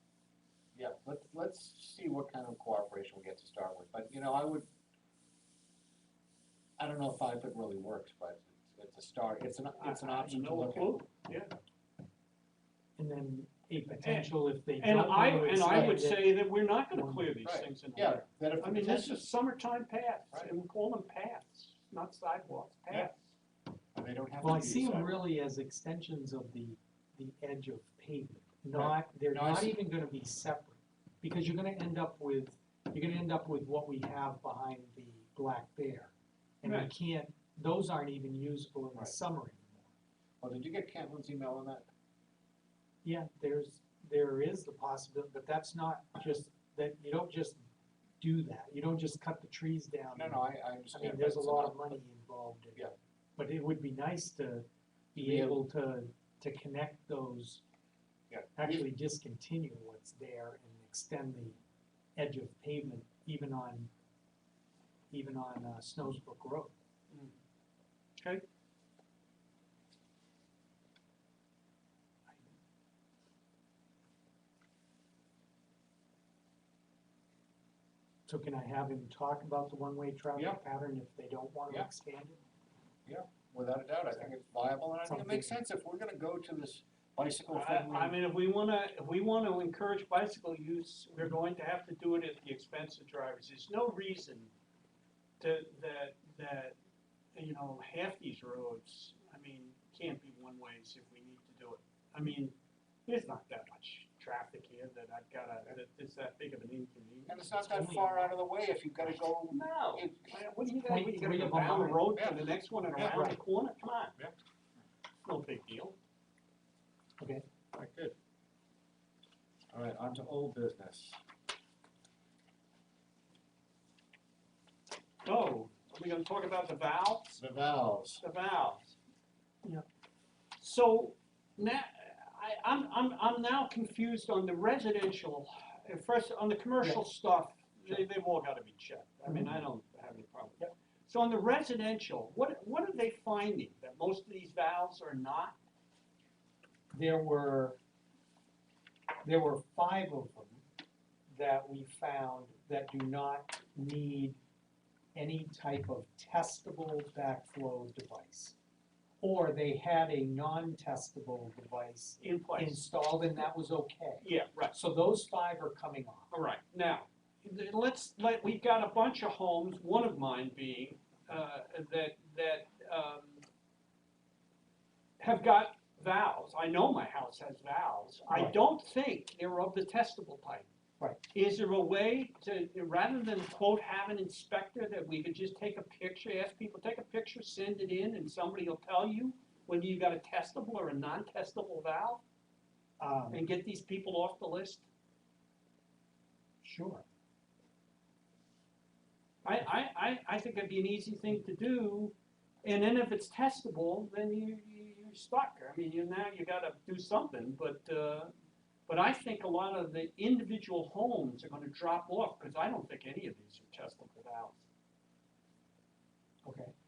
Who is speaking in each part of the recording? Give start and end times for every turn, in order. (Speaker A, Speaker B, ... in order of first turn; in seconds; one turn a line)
Speaker A: 0.7-4.7
Speaker A: 6.8-11.0
Speaker B: 9.8-11.5
Speaker C: 13.0-17.3
Speaker B: 14.0-23.3
Speaker A: 17.4-19.2
Speaker A: 23.9-25.2
Speaker C: 24.4-39.9
Speaker A: 28.7-29.8
Speaker B: 36.6-36.9
Speaker A: 40.4-41.9
Speaker C: 43.0-47.6
Speaker C: 48.2-57.6
Speaker A: 50.1-52.0
Speaker A: 55.1-55.6
Speaker A: 58.3-58.8
Speaker C: 58.6-61.6
Speaker C: 62.1-63.9
Speaker C: 65.1-66.7
Speaker B: 68.2-68.4
Speaker C: 78.3-82.4
Speaker A: 80.3-80.6
Speaker A: 83.0-88.2
Speaker C: 85.0-85.5
Speaker B: 87.5-94.5
Speaker B: 95.4-96.8
Speaker B: 97.3-102.5
Speaker B: 103.0-107.5
Speaker A: 107.3-110.4
Speaker C: 107.6-108.2
Speaker B: 109.5-114.1
Speaker C: 110.7-112.1
Speaker A: 112.1-113.3
Speaker B: 115.2-115.9
Speaker C: 117.2-117.4
Speaker A: 117.7-118.1
Speaker A: 119.7-121.2
Speaker B: 125.2-127.4
Speaker A: 127.3-128.2
Speaker B: 128.2-128.9
Speaker B: 130.6-145.6
Speaker C: 139.3-139.6
Speaker C: 146.9-147.8
Speaker C: 149.2-150.6
Speaker C: 151.3-154.4
Speaker C: 155.1-158.6
Speaker C: 159.2-166.3
Speaker B: 162.2-162.9
Speaker B: 164.2-164.7
Speaker B: 166.3-173.4
Speaker B: 175.2-180.7
Speaker C: 178.3-178.6
Speaker B: 181.3-192.2
Speaker C: 193.0-193.4
Speaker B: 193.3-194.8
Speaker C: 196.6-197.0
Speaker B: 199.4-208.3
Speaker B: 208.9-214.6
Speaker C: 216.4-216.7